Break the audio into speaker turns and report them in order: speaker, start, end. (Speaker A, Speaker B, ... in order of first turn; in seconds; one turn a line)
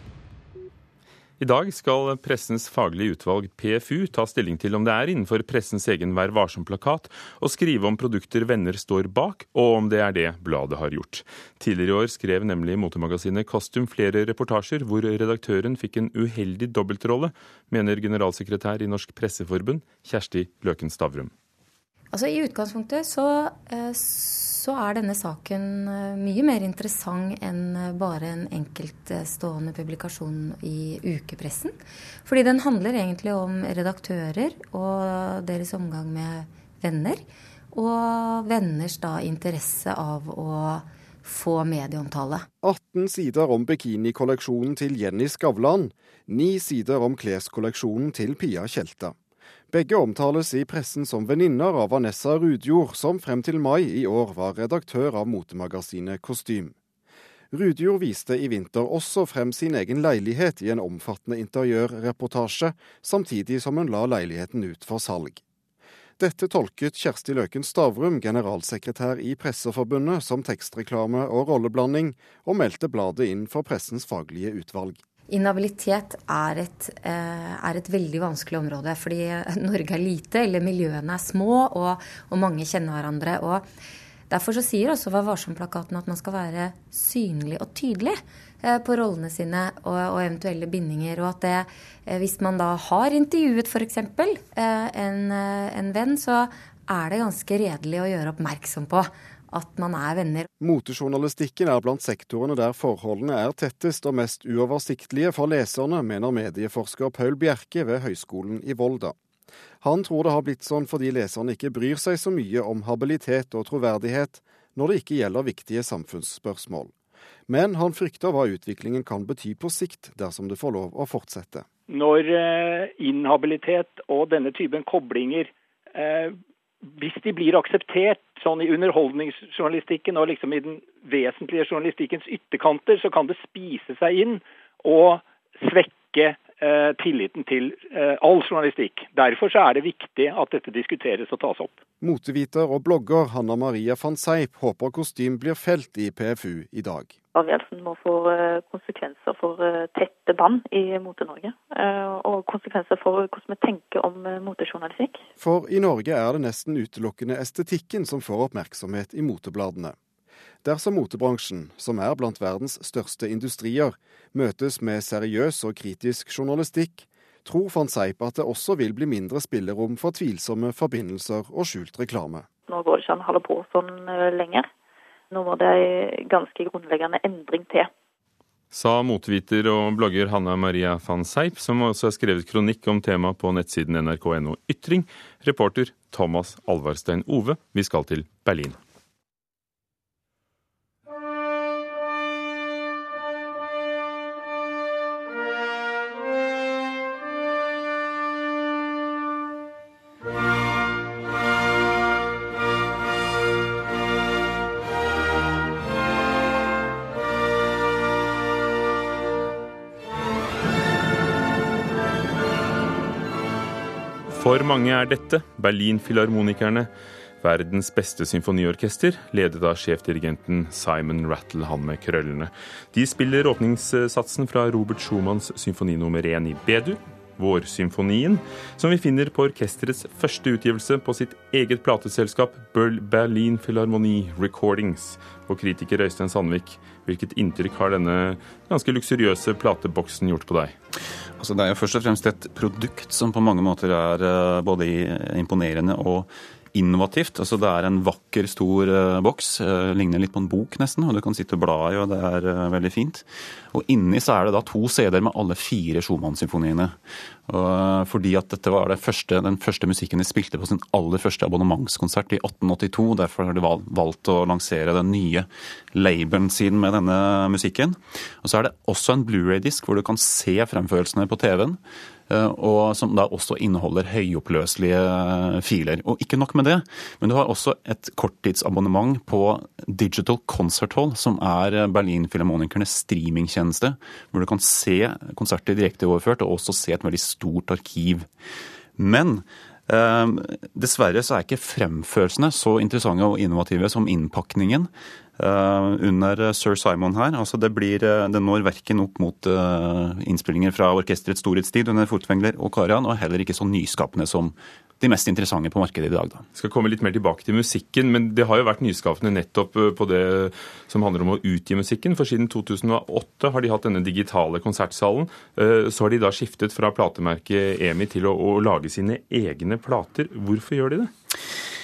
Speaker A: 1.4-21.3
Speaker B: 22.1-42.5
Speaker C: 42.6-49.1
Speaker C: 49.7-56.7
Speaker C: 57.5-65.4
Speaker C: 66.2-75.0
Speaker B: 75.3-83.7
Speaker B: 84.3-100.5
Speaker C: 100.6-109.1
Speaker C: 109.8-116.9
Speaker C: 117.5-121.7
Speaker D: 121.9-126.4
Speaker D: 126.9-141.8
Speaker C: 142.0-147.1
Speaker E: 147.3-155.2
Speaker C: 155.4-160.0
Speaker C: 160.6-172.5
Speaker E: 172.7-174.7
Speaker E: 175.3-177.9
Speaker A: 178.7-188.8
Speaker A: 214.3-216.9
Speaker A: 217.4-240.8
Speaker F: 241.4-257.0
Speaker F: 257.5-288.3
Speaker F: 289.0-306.4
Speaker A: 306.6-321.1